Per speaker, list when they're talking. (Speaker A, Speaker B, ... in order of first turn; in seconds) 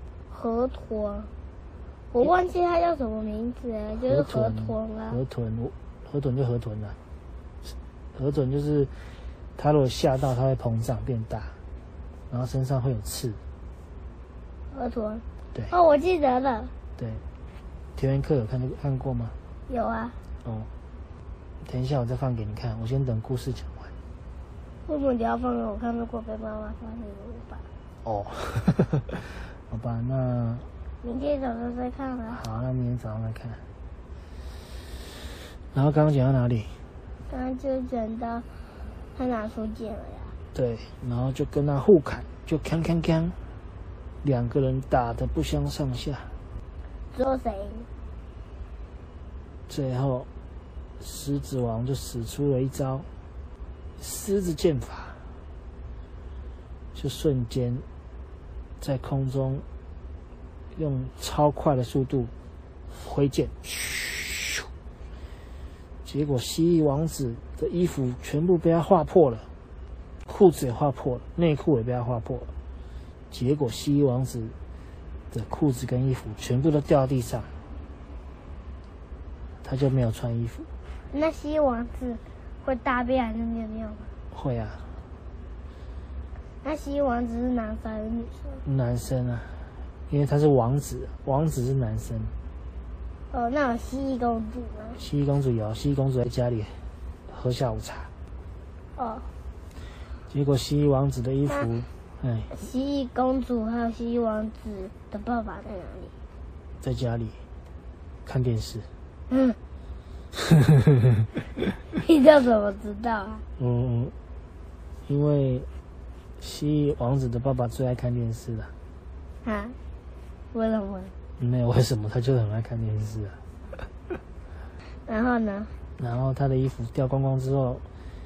Speaker A: 0.3-1.3, 2.1-5.2, 14.7-16.7, 19.7-20.2, 24.9-27.7, 31.0-32.4, 37.3-38.5, 39.1-40.3, 47.1-47.9, 81.1-84.1, 86.6-88.6, 93.3-95.0, 99.0-99.3, 102.5-106.1, 109.3-109.6, 111.9-113.4, 119.4-119.8, 120.5-121.1, 125.1-125.7
Speaker B: 4.0-7.0, 8.1-8.9, 9.6-11.6, 12.3-13.4, 17.0-17.2, 17.9-19.3, 20.4-20.7, 21.6-23.9, 28.0-30.7, 32.3-33.6, 35.7-36.8, 40.5-43.4, 44.2-46.3, 49.7-50.3, 51.0-53.1, 54.0-55.2, 56.9-57.8, 58.8-59.6, 60.7-62.3, 62.9-64.7, 66.0-69.5, 70.2-72.5, 73.3-74.5, 75.3-77.5, 79.6-80.7, 84.3-84.9, 88.6-92.3, 94.9-98.1, 100.3-102.5, 106.8-107.4, 108.2-108.9, 113.6-114.1, 115.1-115.7, 116.4-118.7, 121.4-123.4, 126.0-127.8